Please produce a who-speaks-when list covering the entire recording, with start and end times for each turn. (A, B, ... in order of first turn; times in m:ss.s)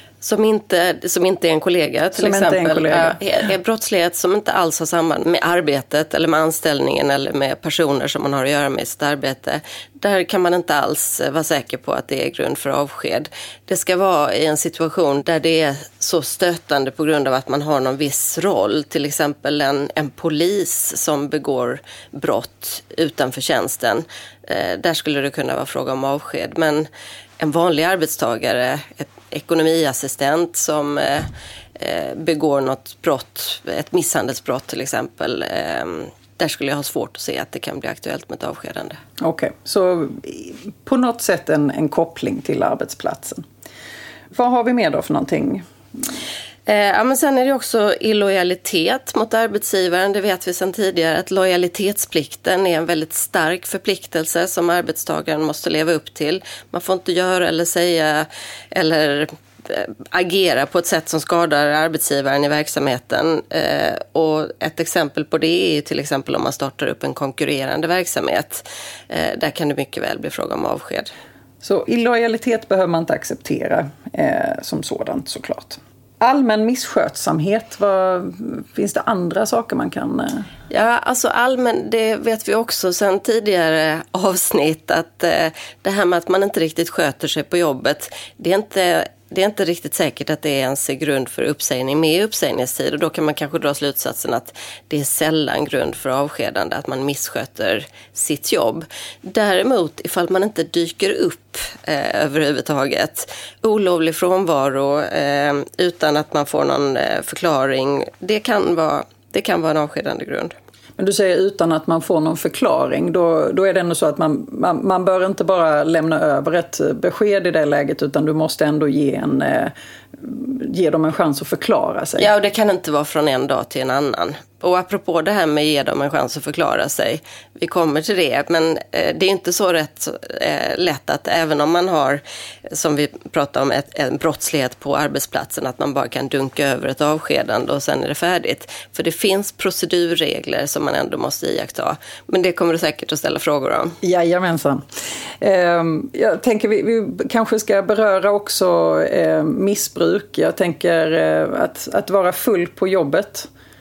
0:00.2-0:26.9 A
0:02.2-0:03.2 B
0:27.4-0:39.0 A
0:39.2-0:43.4 B
0:44.3-0:45.6 B
0:46.6-1:11.1 A
1:11.6-1:20.5 B
1:20.7-1:50.5 A
1:51.0-2:02.3 B
2:02.2-2:24.0 A
2:24.0-2:24.8 B
2:25.4-2:33.5 B